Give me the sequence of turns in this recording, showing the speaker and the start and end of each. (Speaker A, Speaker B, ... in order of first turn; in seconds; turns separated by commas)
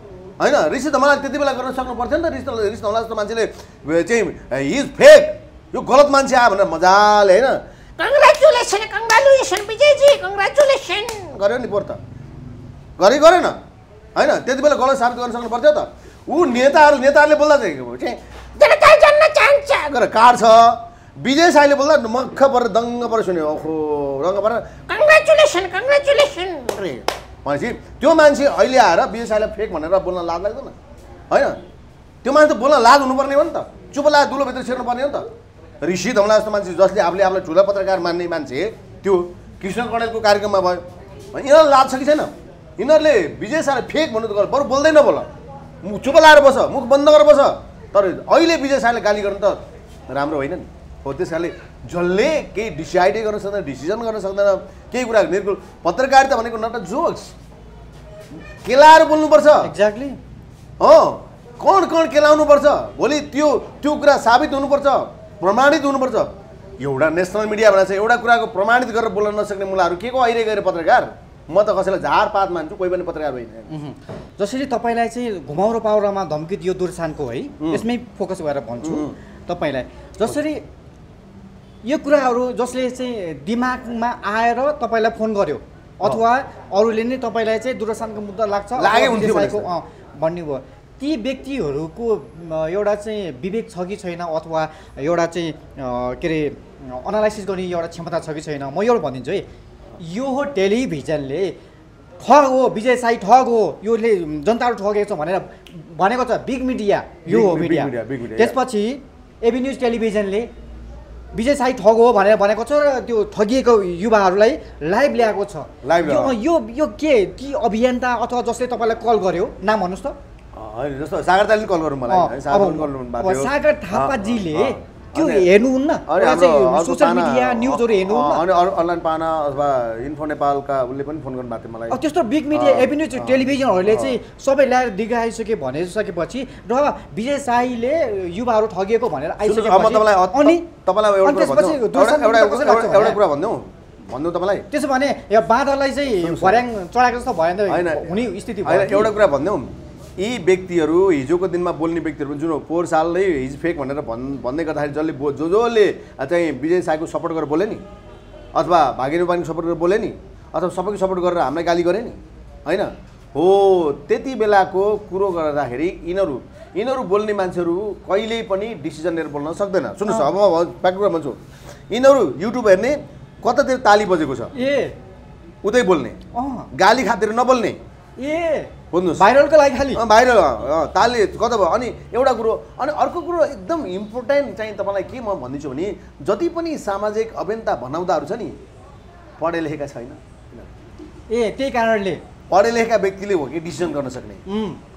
Speaker A: 0.4-7.6, Speaker B: 8.0-11.3, Speaker A: 11.3-12.0, Speaker A: 13.0-13.6, Speaker A: 14.2-18.2, Speaker B: 18.6-19.9, Speaker A: 19.9-24.8, Speaker B: 24.9-26.8, Speaker A: 26.8-30.8, Speaker A: 31.3-31.6, Speaker A: 32.2-35.3, Speaker A: 35.8-40.8, Speaker A: 41.3-45.3, Speaker A: 45.8-57.4, Speaker A: 58.6-59.7, Speaker C: 59.6-60.2, Speaker A: 60.8-73.7, Speaker C: 73.7-80.7, Speaker A: 77.6-77.8, Speaker A: 78.8-79.2, Speaker C: 81.8-99.5, Speaker A: 88.8-89.7, Speaker C: 100.0-101.5, Speaker C: 102.2-110.5, Speaker A: 107.2-108.6, Speaker C: 111.3-120.2, Speaker A: 115.8-116.3, Speaker A: 120.6-125.5, Speaker C: 122.1-128.4, Speaker A: 126.1-132.0, Speaker C: 131.9-140.7, Speaker A: 132.5-134.2, Speaker A: 139.4-144.7, Speaker C: 141.2-143.2, Speaker C: 144.7-149.1, Speaker A: 146.2-146.6, Speaker A: 147.7-157.8, Speaker A: 158.6-171.4, Speaker A: 171.9-174.5, Speaker C: 174.6-175.0, Speaker A: 175.6-176.2, Speaker C: 176.3-176.7, Speaker A: 176.7-177.8, Speaker C: 178.2-180.0, Speaker A: 178.9-179.3, Speaker A: 179.9-188.6, Speaker A: 189.4-190.7, Speaker C: 191.3-192.2, Speaker A: 192.5-194.4, Speaker C: 194.5-194.8